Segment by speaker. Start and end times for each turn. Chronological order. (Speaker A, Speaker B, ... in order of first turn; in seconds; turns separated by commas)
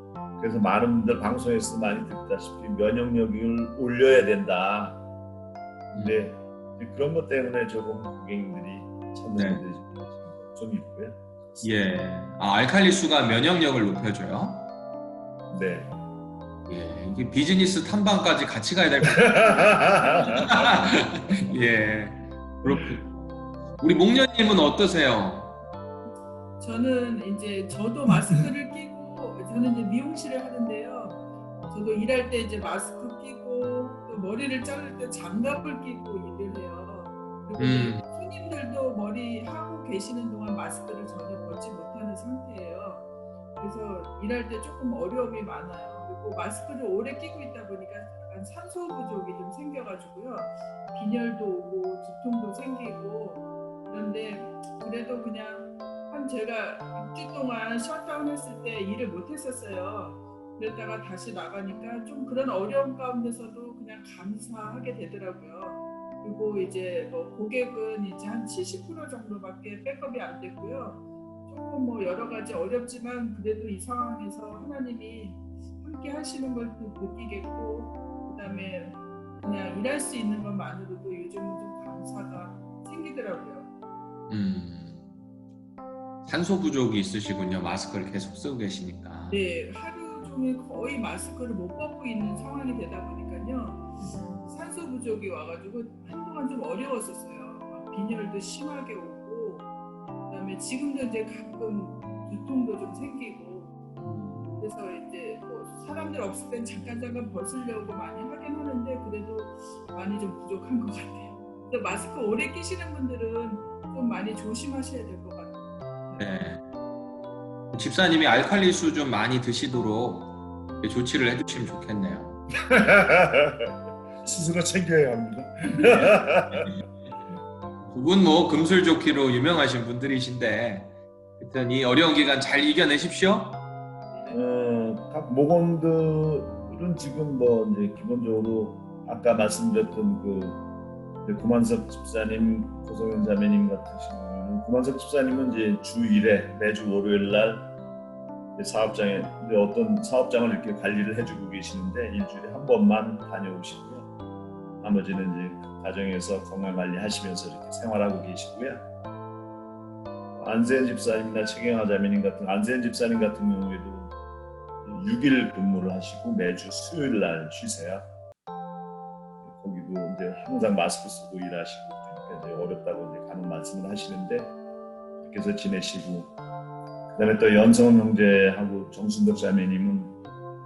Speaker A: 0.4-5.0, Speaker B: 5.9-6.2, Speaker A: 5.9-11.8, Speaker B: 9.3-9.6, Speaker B: 11.6-14.7, Speaker A: 15.5-15.9, Speaker B: 16.7-23.1, Speaker A: 19.0-20.9, Speaker B: 23.8-25.6, Speaker C: 26.6-43.0, Speaker B: 37.6-38.0, Speaker C: 43.6-83.7, Speaker B: 84.3-85.1, Speaker B: 86.2-89.4, Speaker C: 89.3-99.7, Speaker B: 94.0-94.5, Speaker C: 100.3-103.7, Speaker B: 104.0-104.6, Speaker C: 104.6-116.3, Speaker B: 116.2-116.6, Speaker B: 117.7-122.4, Speaker A: 122.7-126.7, Speaker B: 125.8-126.1, Speaker B: 127.8-133.7, Speaker C: 134.1-134.4, Speaker A: 134.3-140.6, Speaker A: 141.2-147.7, Speaker A: 148.6-154.1, Speaker A: 154.8-158.8, Speaker A: 160.3-164.1, Speaker A: 164.8-168.0, Speaker A: 169.4-174.5, Speaker A: 175.2-176.3, Speaker A: 177.1-180.1